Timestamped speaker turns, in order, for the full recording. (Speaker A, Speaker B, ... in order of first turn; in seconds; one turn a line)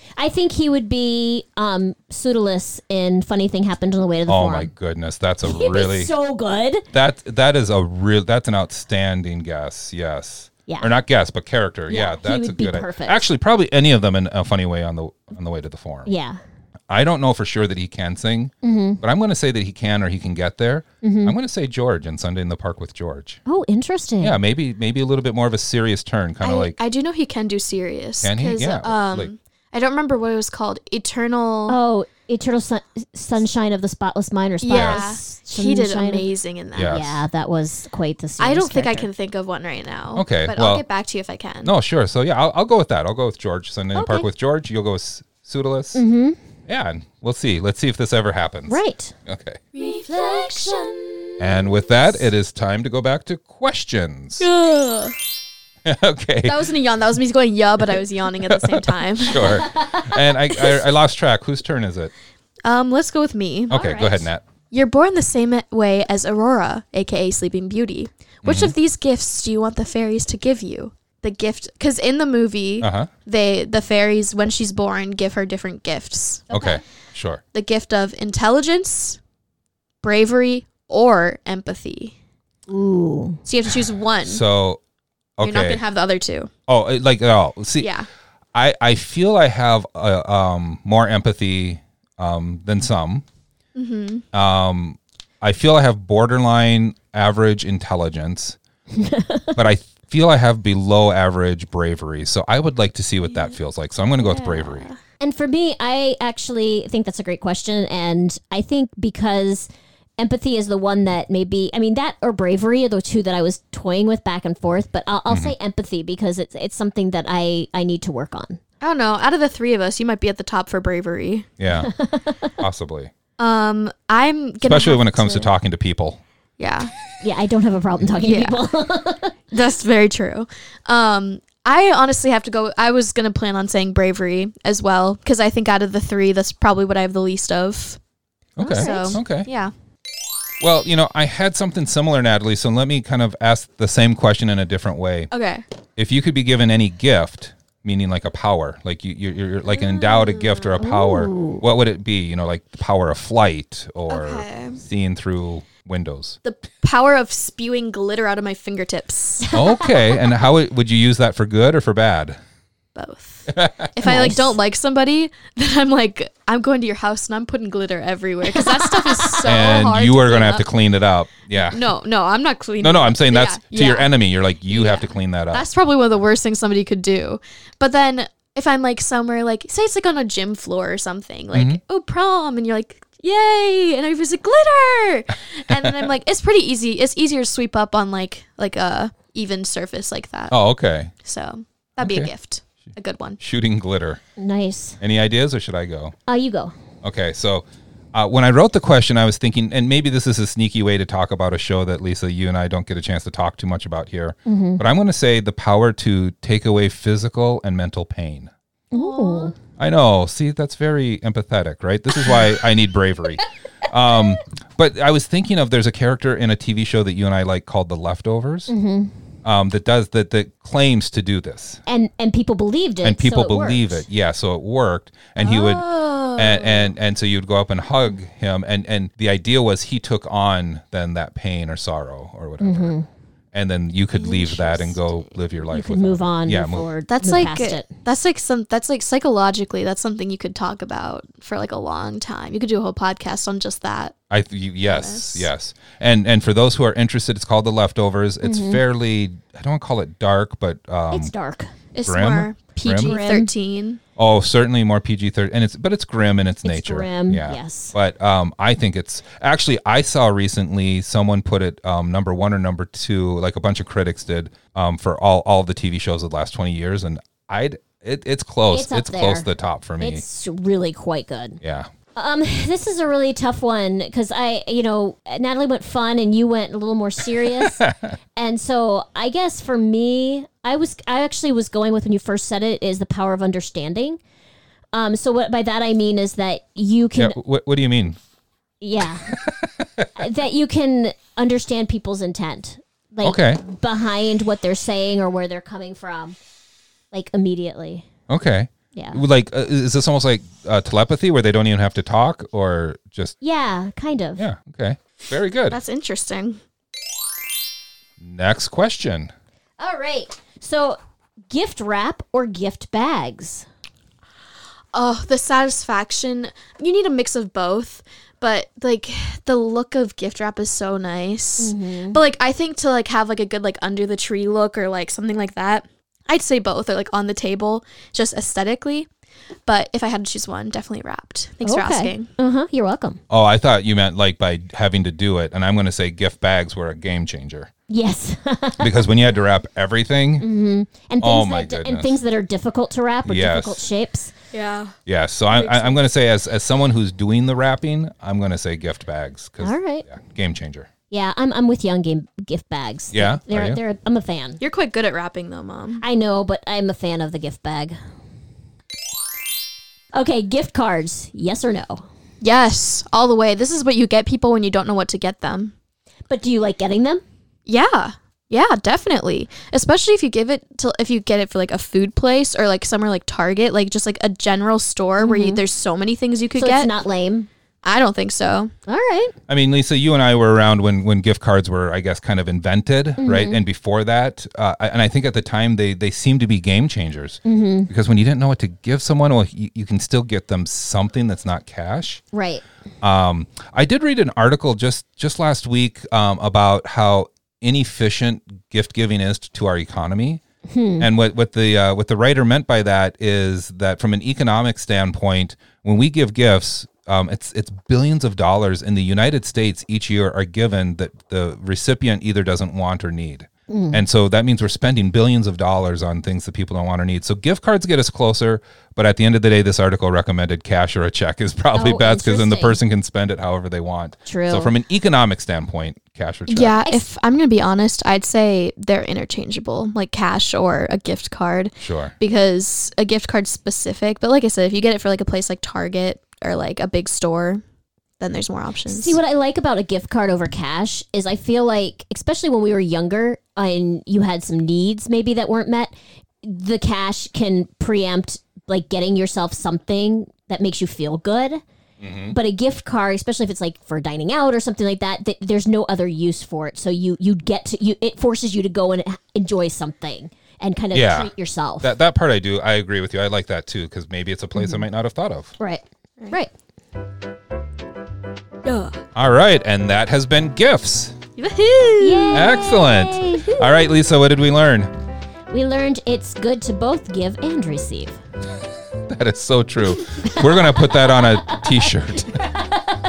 Speaker A: 0.2-4.7
Speaker B: 4.3-6.1
Speaker A: 5.4-6.8
Speaker B: 6.9-16.1
Speaker A: 11.9-13.2
Speaker A: 16.1-16.4
Speaker B: 16.9-23.4
Speaker A: 18.6-19.0
Speaker A: 21.0-21.4
Speaker A: 23.5-24.4
Speaker B: 24.2-26.8
Speaker C: 26.4-31.8
Speaker B: 28.2-29.3
Speaker A: 31.7-36.2
Speaker C: 34.6-37.0
Speaker B: 34.7-35.1
Speaker B: 36.8-37.2
Speaker A: 36.8-39.1
Speaker C: 38.4-41.7
Speaker B: 40.1-40.8
Speaker B: 41.6-46.0
Speaker A: 43.9-44.3
Speaker A: 46.0-46.4
Speaker B: 46.7-49.6
Speaker A: 48.7-49.1
Speaker C: 49.7-51.8
Speaker A: 50.2-50.4
Speaker B: 51.4-54.5
Speaker C: 54.4-55.1
Speaker B: 55.8-56.7
Speaker C: 56.5-59.6
Speaker B: 58.5-62.1
Speaker C: 62.6-63.8
Speaker B: 63.7-64.4
Speaker A: 63.7-64.3
Speaker C: 64.7-76.6
Speaker B: 68.4-68.8
Speaker B: 72.8-73.1
Speaker B: 76.5-77.4
Speaker C: 77.5-79.2
Speaker C: 80.0-82.2
Speaker A: 82.7-83.4
Speaker C: 83.5-84.4
Speaker B: 84.2-84.8
Speaker B: 85.4-85.8
Speaker C: 85.4-86.5
Speaker B: 86.7-87.9
Speaker C: 87.8-88.1
Speaker B: 88.5-93.2
Speaker C: 93.8-94.2
Speaker B: 94.3-98.6
Speaker A: 98.9-99.6
Speaker B: 99.6-104.9
Speaker C: 104.2-105.0
Speaker A: 105.2-118.6
Speaker B: 115.3-115.5
Speaker C: 118.8-121.5
Speaker B: 121.6-121.9
Speaker A: 121.8-122.5
Speaker B: 122.6-123.1
Speaker C: 123.4-125.5
Speaker B: 124.6-126.2
Speaker C: 126.6-126.9
Speaker A: 127.2-129.3
Speaker C: 128.2-128.6
Speaker C: 129.5-138.0
Speaker B: 138.6-139.5
Speaker C: 138.6-139.7
Speaker A: 138.6-139.2
Speaker B: 140.6-145.3
Speaker C: 145.3-145.6
Speaker B: 146.0-156.4
Speaker C: 149.7-150.8
Speaker A: 150.8-151.6
Speaker C: 154.1-154.8
Speaker C: 156.4-160.0
Speaker B: 159.5-162.4
Speaker C: 162.9-170.7
Speaker B: 163.5-163.9
Speaker A: 164.0-164.6
Speaker A: 168.8-169.4
Speaker B: 169.4-171.8
Speaker C: 171.7-174.1
Speaker B: 172.8-175.7
Speaker C: 174.7-190.6
Speaker B: 181.5-181.8
Speaker B: 185.7-186.1
Speaker B: 190.5-191.1
Speaker C: 191.2-193.4
Speaker B: 192.0-192.3
Speaker B: 193.4-194.2
Speaker A: 194.4-195.0
Speaker B: 195.0-196.2
Speaker A: 196.3-196.7
Speaker B: 197.0-208.5
Speaker A: 204.5-204.8
Speaker A: 208.9-209.5
Speaker C: 208.9-209.5
Speaker B: 209.8-218.7
Speaker A: 218.7-219.1
Speaker B: 219.4-221.8
Speaker A: 221.9-224.0
Speaker B: 223.0-233.0
Speaker C: 225.4-226.9
Speaker A: 232.6-233.1
Speaker B: 233.5-236.9
Speaker C: 234.1-235.3
Speaker A: 235.7-237.9
Speaker C: 237.1-244.2
Speaker B: 244.3-251.3
Speaker C: 244.9-245.5
Speaker A: 248.4-248.8
Speaker A: 251.1-251.7
Speaker C: 251.9-254.0
Speaker B: 252.1-253.2
Speaker A: 253.0-253.5
Speaker B: 254.2-270.2
Speaker A: 256.6-257.9
Speaker A: 268.7-269.5
Speaker A: 270.0-271.6
Speaker B: 271.6-271.9
Speaker A: 272.2-277.8
Speaker B: 277.4-278.1
Speaker A: 278.4-284.2
Speaker A: 284.9-287.4
Speaker B: 287.2-288.2
Speaker A: 288.8-289.3
Speaker B: 289.3-290.1
Speaker A: 290.2-296.4
Speaker B: 293.2-293.6
Speaker A: 297.1-298.1
Speaker B: 298.3-303.4
Speaker A: 298.9-299.2
Speaker A: 303.4-304.4
Speaker B: 304.4-305.8
Speaker C: 305.7-306.6
Speaker B: 308.2-309.3
Speaker A: 309.8-311.0
Speaker A: 311.5-313.7
Speaker C: 314.9-329.1
Speaker A: 321.6-322.2
Speaker C: 329.7-332.3
Speaker A: 331.6-333.2
Speaker B: 333.3-337.7
Speaker A: 337.9-339.0
Speaker B: 338.8-340.5
Speaker A: 340.4-344.3
Speaker B: 341.2-342.1
Speaker B: 343.2-343.9
Speaker C: 344.5-344.9
Speaker B: 345.1-350.9
Speaker C: 345.5-346.0
Speaker A: 349.6-350.1
Speaker A: 351.1-354.6
Speaker B: 353.1-353.8
Speaker C: 354.6-356.0
Speaker A: 356.0-358.0
Speaker A: 360.1-362.1
Speaker C: 362.4-365.7
Speaker A: 366.3-367.2
Speaker C: 367.7-376.9
Speaker A: 375.2-375.6
Speaker A: 376.6-377.5
Speaker C: 377.8-378.7
Speaker A: 378.9-379.3
Speaker B: 379.5-392.2
Speaker A: 383.2-383.6
Speaker A: 387.4-387.9
Speaker A: 392.3-392.6
Speaker B: 393.0-400.4
Speaker A: 400.7-401.1
Speaker B: 401.0-426.8
Speaker A: 413.7-414.0
Speaker A: 421.7-422.8
Speaker A: 424.3-424.7
Speaker C: 426.5-437.6
Speaker B: 431.8-432.1
Speaker C: 438.2-439.2
Speaker A: 438.9-451.6
Speaker B: 452.0-452.4
Speaker A: 452.3-461.9
Speaker B: 460.9-465.5
Speaker A: 464.6-464.8
Speaker A: 465.6-466.5
Speaker C: 468.6-469.0
Speaker B: 469.1-471.2
Speaker C: 471.4-472.4
Speaker A: 472.0-473.9
Speaker B: 472.3-474.9
Speaker A: 475.5-478.2
Speaker B: 479.1-482.4
Speaker A: 481.2-482.9